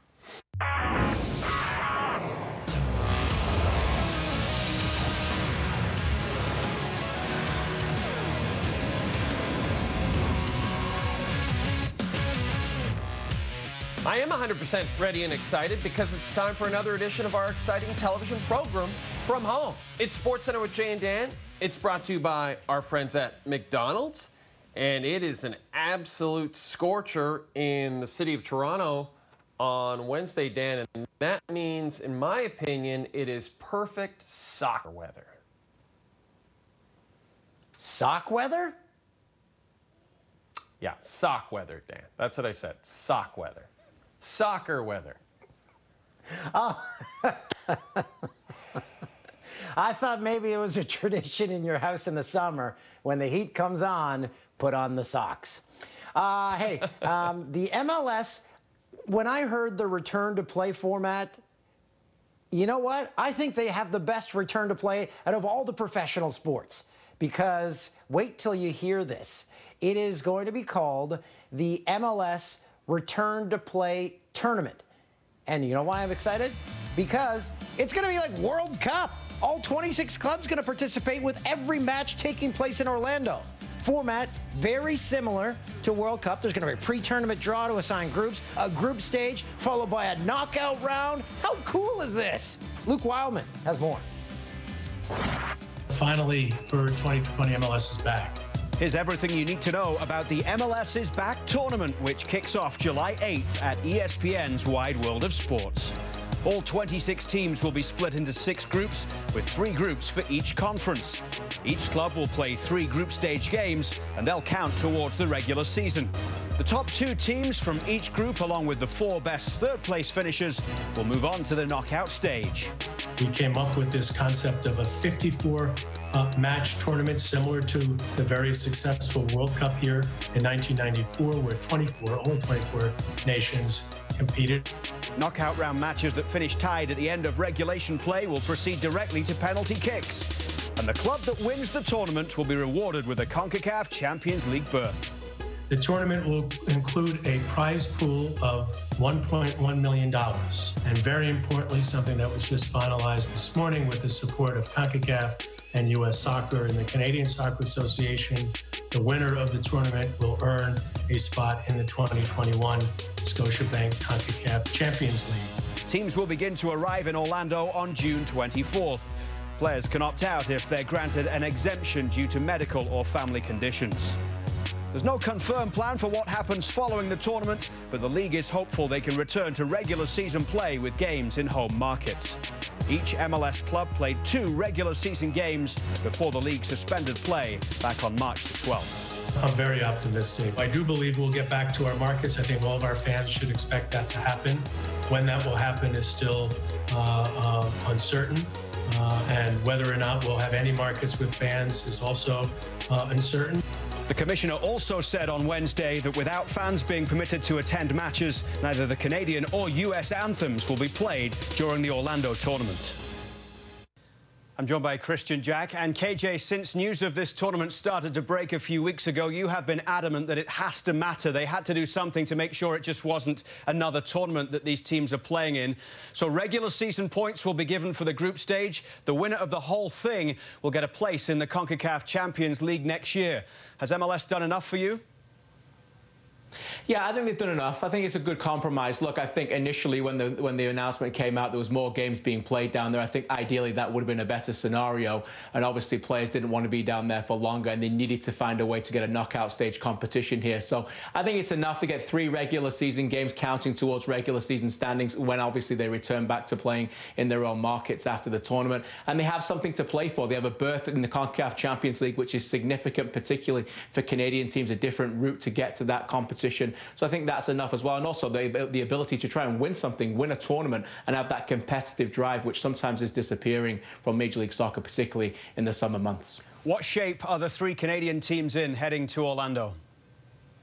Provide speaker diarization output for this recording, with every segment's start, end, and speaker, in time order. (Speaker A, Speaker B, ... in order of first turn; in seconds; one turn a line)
Speaker A: 14.0-35.4
Speaker B: 37.8-38.8
Speaker A: 40.8-43.7
Speaker A: 44.2-45.2
Speaker B: 46.5-48.0
Speaker B: 49.8-58.5
Speaker B: 59.1-61.4
Speaker B: 62.5-74.8
Speaker B: 75.5-94.0
Speaker C: 95.9-98.4
Speaker D: 98.8-122.7
Speaker C: 123.2-134.6
Speaker D: 135.2-145.1
Speaker C: 145.7-165.5
Speaker D: 165.9-174.2
Speaker D: 174.9-189.0
Speaker C: 189.3-203.6
Speaker D: 204.1-213.0
Speaker D: 214.6-235.0
Speaker E: 236.9-276.4
Speaker D: 276.6-279.8